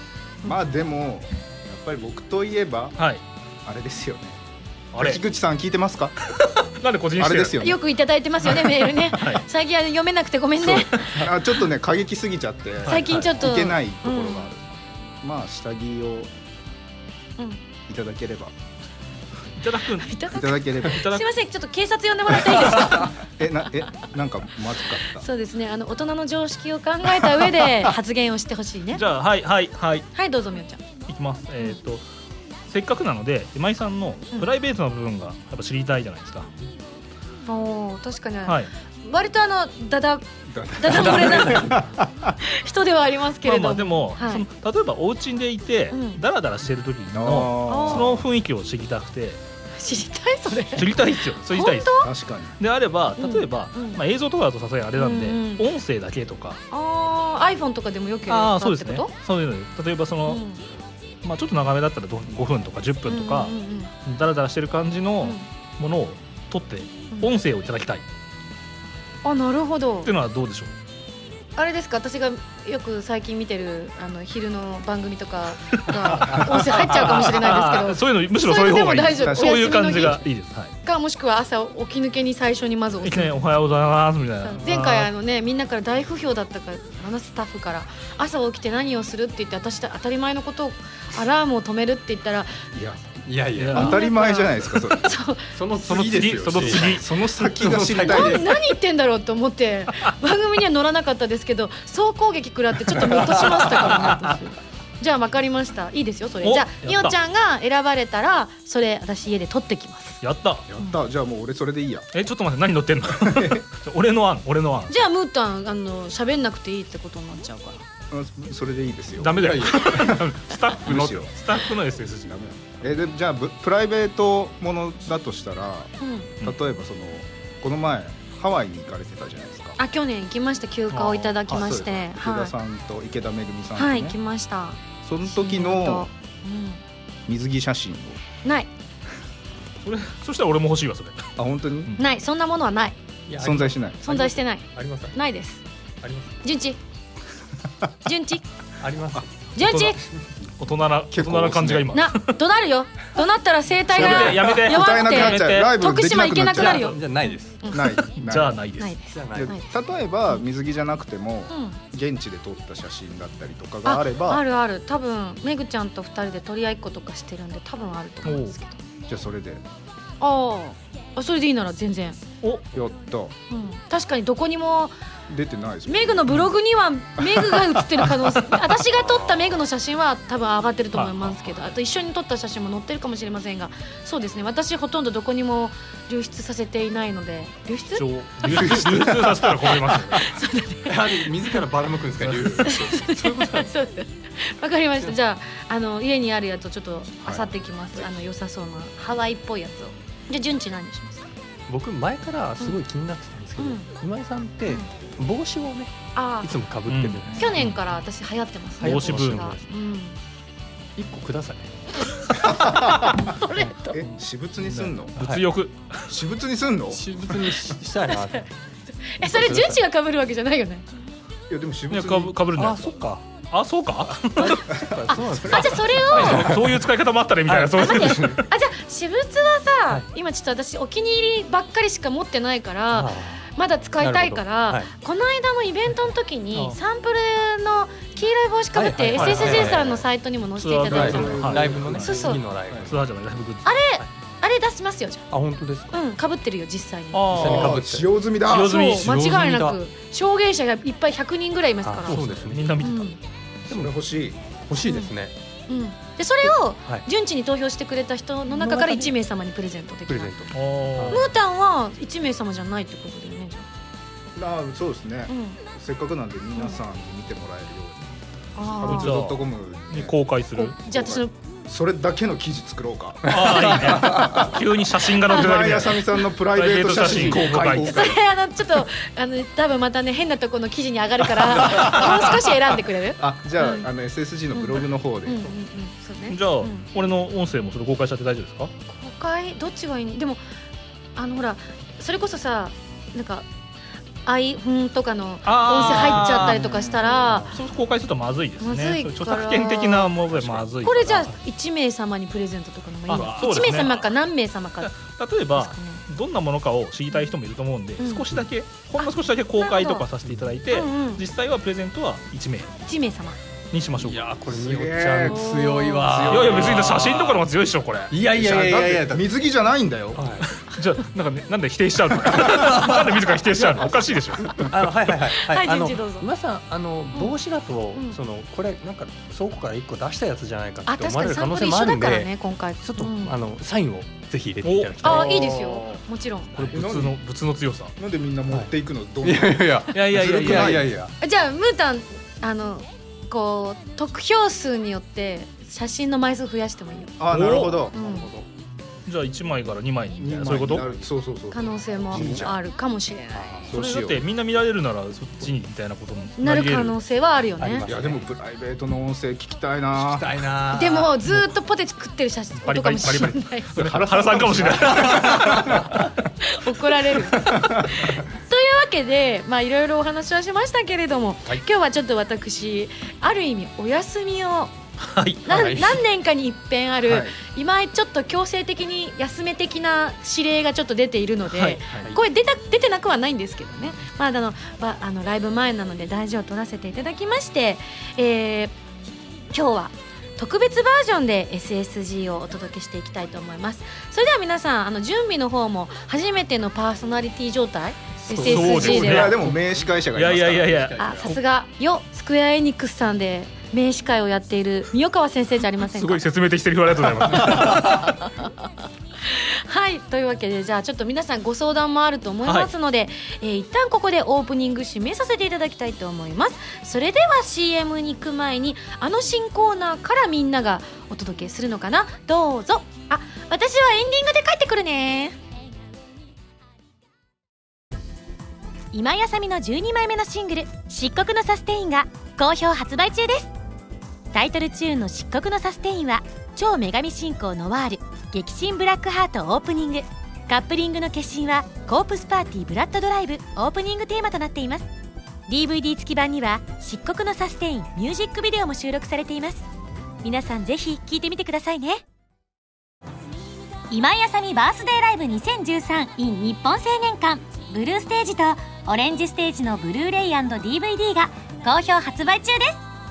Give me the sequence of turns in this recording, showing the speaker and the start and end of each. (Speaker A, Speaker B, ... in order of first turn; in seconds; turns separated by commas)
Speaker A: 0.4-3.0, Speaker A: 3.6-4.4, Speaker B: 4.9-5.2, Speaker A: 4.9-6.2, Speaker B: 6.3-7.7, Speaker A: 7.2-7.8, Speaker C: 7.6-11.3, Speaker B: 8.6-9.4, Speaker B: 10.7-11.3, Speaker A: 11.1-16.3, Speaker B: 12.8-13.3, Speaker C: 12.9-14.5, Speaker A: 17.9-18.5, Speaker B: 19.6-20.2, Speaker C: 20.0-23.9, Speaker A: 20.3-21.1, Speaker B: 20.8-21.3, Speaker A: 22.6-25.2, Speaker C: 25.0-29.0, Speaker B: 28.9-30.1, Speaker C: 30.1-30.8, Speaker B: 31.1-32.0, Speaker B: 32.7-36.5, Speaker C: 37.5-41.8, Speaker A: 40.5-42.4, Speaker D: 40.9-41.8, Speaker C: 42.4-44.5, Speaker B: 43.4-49.4, Speaker C: 45.9-46.2, Speaker A: 47.1-48.3, Speaker C: 47.7-48.1, Speaker C: 49.8-52.1, Speaker B: 50.7-52.1, Speaker A: 52.0-52.6, Speaker B: 52.6-56.6, Speaker C: 53.2-54.0, Speaker C: 55.0-55.7, Speaker C: 56.7-59.1, Speaker B: 58.3-60.4, Speaker C: 60.3-60.6, Speaker B: 61.2-63.5, Speaker C: 63.1-63.9, Speaker B: 64.0-68.0, Speaker C: 69.2-70.1, Speaker B: 70.0-70.8, Speaker C: 71.6-80.2, Speaker B: 75.9-80.7, Speaker A: 79.2-79.9, Speaker C: 80.8-83.4, Speaker B: 83.0-85.1, Speaker C: 84.4-92.7, Speaker A: 92.7-95.1, Speaker D: 93.3-93.9, Speaker B: 93.6-94.0, Speaker C: 93.8-95.5, Speaker D: 95.5-98.5, Speaker B: 95.8-97.1, Speaker A: 96.2-98.5, Speaker C: 98.0-104.5, Speaker C: 105.0-110.2, Speaker B: 106.4-107.2, Speaker B: 110.2-110.7, Speaker A: 110.7-112.1, Speaker B: 112.1-115.0, Speaker A: 113.2-113.6, Speaker C: 114.9-117.8, Speaker A: 118.1-120.3, Speaker B: 119.2-122.3, Speaker D: 119.4-119.9, Speaker A: 120.8-121.4, Speaker A: 122.2-129.8, Speaker C: 126.0-126.3, Speaker C: 129.8-132.5, Speaker B: 130.9-131.8, Speaker A: 131.5-134.2, Speaker C: 133.8-136.8, Speaker A: 135.0-136.1, Speaker A: 137.3-138.2, Speaker C: 138.4-138.7, Speaker B: 139.8-141.3, Speaker A: 141.4-141.9, Speaker C: 142.0-143.0, Speaker D: 143.3-145.2, Speaker A: 143.4-144.1, Speaker C: 144.0-145.6, Speaker D: 146.0-146.4, Speaker C: 146.4-146.8, Speaker C: 148.1-148.4, Speaker D: 148.8-149.3, Speaker C: 149.5-150.0, Speaker B: 149.6-150.0, Speaker B: 150.6-152.4, Speaker A: 151.1-151.9, Speaker C: 151.9-158.1, Speaker B: 153.9-155.8, Speaker A: 153.9-157.0, Speaker D: 156.5-157.6, Speaker A: 157.7-158.6, Speaker B: 158.2-159.0, Speaker C: 158.8-159.7, Speaker D: 159.1-159.6, Speaker A: 159.3-164.4, Speaker C: 161.5-161.8, Speaker C: 163.9-168.8, Speaker B: 168.2-168.5, Speaker A: 169.1-169.6, Speaker C: 170.2-172.2, Speaker A: 172.7-173.3, Speaker C: 173.5-175.0, Speaker A: 175.3-176.4, Speaker C: 175.9-188.1, Speaker A: 177.2-178.1, Speaker D: 178.9-179.6, Speaker B: 180.9-181.5, Speaker B: 187.9-190.2, Speaker A: 188.5-189.3, Speaker D: 188.7-189.0, Speaker C: 190.1-191.6, Speaker D: 190.9-193.7, Speaker C: 192.6-201.3, Speaker A: 197.2-197.5, Speaker D: 201.7-207.6, Speaker C: 203.6-203.9, Speaker C: 206.2-206.5, Speaker B: 206.9-207.7, Speaker C: 207.4-210.2, Speaker D: 208.8-209.6, Speaker B: 208.8-209.6, Speaker D: 211.0-211.7, Speaker A: 212.4-215.2, Speaker C: 212.5-214.0, Speaker B: 214.6-216.1, Speaker A: 216.1-217.1, Speaker D: 216.9-218.5, Speaker C: 219.1-220.9, Speaker D: 219.2-219.8, Speaker A: 221.5-222.4, Speaker B: 221.9-224.8, Speaker D: 222.6-223.2, Speaker D: 224.2-226.8, Speaker C: 225.4-226.5, Speaker B: 225.9-228.4, Speaker D: 227.5-228.4, Speaker C: 227.8-242.4, Speaker D: 232.9-233.5, Speaker D: 234.0-234.9, Speaker D: 238.7-240.1, Speaker B: 239.2-239.7, Speaker A: 239.2-239.8, Speaker B: 240.6-242.3, Speaker A: 240.9-242.9, Speaker D: 240.9-242.9, Speaker B: 242.8-243.7, Speaker C: 243.7-245.3, Speaker D: 245.3-246.0, Speaker C: 245.9-247.3, Speaker B: 247.1-247.8, Speaker D: 247.3-248.1, Speaker A: 247.3-248.8, Speaker B: 248.4-249.4, Speaker C: 248.5-252.2, Speaker D: 248.9-249.8, Speaker D: 251.8-252.8, Speaker B: 252.1-253.1, Speaker C: 252.8-253.2, Speaker A: 253.7-254.4, Speaker D: 254.7-255.3, Speaker C: 254.8-255.1, Speaker C: 255.7-260.3, Speaker D: 258.5-259.1, Speaker D: 260.1-261.3, Speaker B: 260.5-261.3, Speaker C: 261.1-263.7, Speaker A: 264.4-270.2, Speaker C: 265.3-265.6, Speaker C: 268.6-269.1, Speaker B: 268.8-270.8, Speaker C: 270.6-271.3, Speaker A: 270.9-278.2, Speaker B: 273.3-278.1, Speaker C: 277.6-283.9, Speaker A: 281.8-282.1, Speaker A: 283.2-285.5, Speaker C: 284.5-286.9, Speaker B: 286.3-288.7, Speaker C: 288.9-290.4, Speaker C: 291.2-293.5, Speaker C: 294.2-297.6, Speaker B: 295.4-296.7, Speaker A: 296.6-297.2, Speaker D: 297.2-297.5, Speaker B: 297.5-301.3, Speaker C: 298.6-300.1, Speaker C: 300.8-304.9, Speaker B: 303.1-304.1, Speaker B: 304.8-312.7, Speaker C: 305.6-306.0, Speaker C: 308.0-308.3, Speaker C: 309.0-310.1, Speaker C: 310.7-311.2, Speaker C: 312.9-313.4, Speaker B: 313.7-314.3, Speaker D: 314.0-317.5, Speaker A: 314.5-317.0, Speaker C: 315.2-316.3, Speaker B: 316.2-318.1, Speaker D: 318.1-319.3, Speaker A: 318.2-320.3, Speaker D: 320.1-320.5, Speaker B: 320.5-324.6, Speaker D: 322.3-323.9, Speaker D: 324.4-335.4, Speaker C: 325.3-326.3, Speaker C: 327.9-328.2, Speaker C: 330.9-333.4, Speaker B: 334.6-335.4, Speaker C: 335.0-336.5, Speaker B: 336.5-337.9, Speaker A: 336.7-337.2, Speaker A: 338.0-340.9, Speaker D: 339.2-341.1, Speaker B: 339.9-340.9, Speaker C: 341.2-347.2, Speaker A: 347.2-348.0, Speaker B: 347.3-347.9, Speaker C: 347.9-348.3, Speaker D: 347.9-348.5, Speaker B: 349.1-350.9, Speaker A: 350.2-352.6, Speaker C: 351.5-353.7, Speaker D: 352.2-352.4, Speaker D: 353.3-353.7, Speaker A: 353.7-354.2, Speaker B: 353.7-357.0, Speaker C: 356.4-357.9, Speaker D: 357.6-358.3, Speaker A: 357.9-360.3, Speaker D: 359.9-361.2, Speaker C: 360.7-363.7, Speaker B: 362.6-366.1, Speaker A: 363.8-365.9, Speaker D: 364.4-365.9, Speaker C: 366.4-374.7, Speaker A: 367.5-367.8, Speaker B: 375.0-375.7, Speaker C: 375.4-388.7, Speaker D: 375.5-376.0, Speaker A: 377.1-377.4, Speaker B: 381.5-382.0, Speaker C: 389.5-399.4, Speaker D: 398.3-401.4, Speaker B: 398.3-399.5, Speaker A: 398.6-400.8, Speaker B: 400.1-401.3, Speaker C: 401.0-406.2, Speaker B: 405.8-408.2, Speaker C: 407.8-408.5, Speaker C: 409.3-425.4, Speaker B: 412.4-412.7, Speaker E: 428.9-433.5, Speaker E: 434.3-444.9, Speaker E: 445.5-449.7, Speaker E: 450.2-452.0, Speaker E: 453.9-462.8